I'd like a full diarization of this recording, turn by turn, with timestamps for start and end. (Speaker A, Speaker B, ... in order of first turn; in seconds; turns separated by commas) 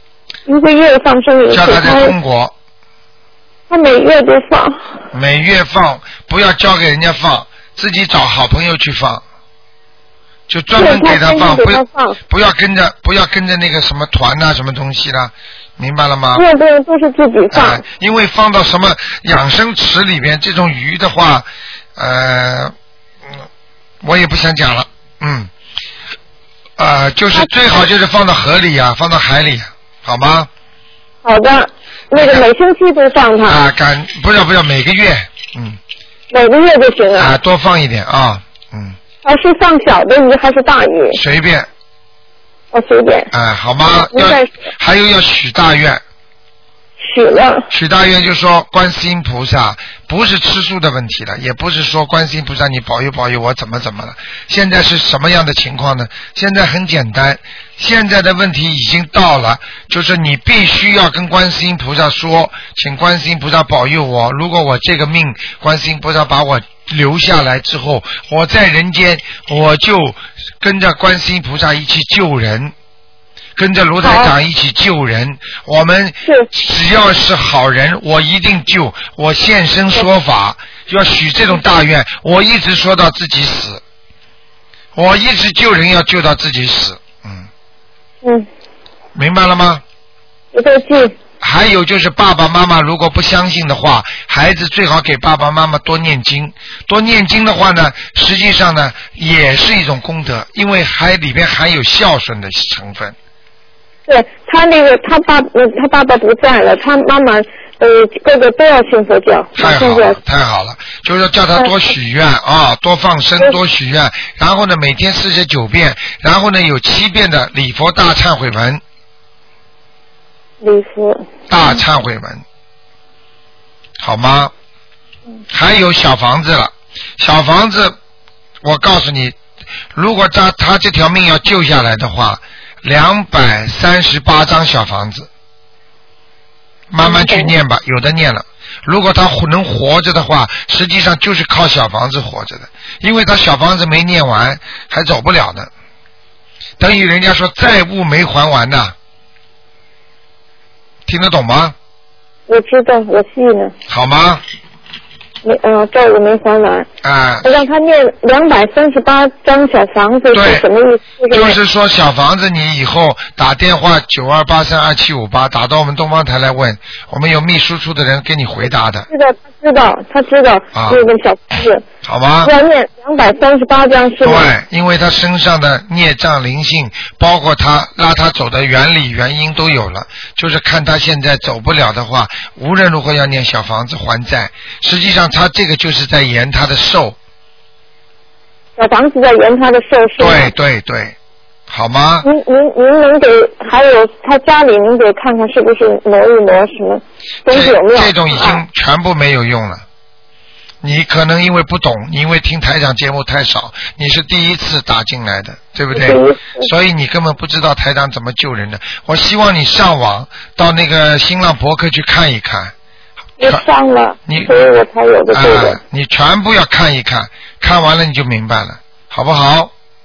Speaker A: 0.5-2.1, Speaker B: 1.5-2.5, Speaker A: 3.7-4.9, Speaker B: 5.1-9.2, Speaker B: 10.5-16.4, Speaker A: 10.8-12.2, Speaker A: 16.3-17.8, Speaker B: 17.5-22.7, Speaker B: 24.0-25.5, Speaker B: 26.8-30.5, Speaker A: 31.2-33.6, Speaker B: 32.1-32.5, Speaker B: 33.5-35.8, Speaker A: 36.3-37.3, Speaker B: 37.1-39.0, Speaker A: 39.2-41.2, Speaker B: 41.1-41.7, Speaker A: 42.7-43.3, Speaker B: 43.3-46.0, Speaker A: 43.9-44.6, Speaker A: 47.0-47.7, Speaker B: 47.7-72.7, Speaker B: 73.5-83.8, Speaker A: 74.0-74.3, Speaker B: 84.9-87.5, Speaker B: 89.1-89.8, Speaker A: 90.5-91.2, Speaker B: 91.4-103.1, Speaker A: 104.1-110.2, Speaker B: 109.6-118.8, Speaker A: 120.6-121.8, Speaker B: 121.5-122.4, Speaker B: 124.0-124.5, Speaker B: 125.5-128.0, Speaker B: 128.6-129.3, Speaker B: 129.9-135.3, Speaker B: 136.9-145.7, Speaker A: 137.0-137.5, Speaker B: 146.8-148.9, Speaker B: 151.1-151.7, Speaker A: 152.5-153.7, Speaker B: 153.9-154.4, Speaker A: 155.4-156.9, Speaker B: 157.0-157.5, Speaker A: 157.4-161.6, Speaker B: 160.3-160.6, Speaker B: 161.3-169.1, Speaker A: 169.1-171.8, Speaker B: 170.7-171.0, Speaker B: 172.0-172.5, Speaker A: 172.4-174.5, Speaker B: 174.2-187.2, Speaker A: 188.8-190.5, Speaker B: 190.2-191.2, Speaker B: 191.7-192.3, Speaker A: 192.2-198.6, Speaker B: 197.5-199.8, Speaker B: 200.8-212.7, Speaker A: 205.9-206.7, Speaker A: 213.4-215.8, Speaker B: 214.3-214.5, Speaker B: 215.3-219.7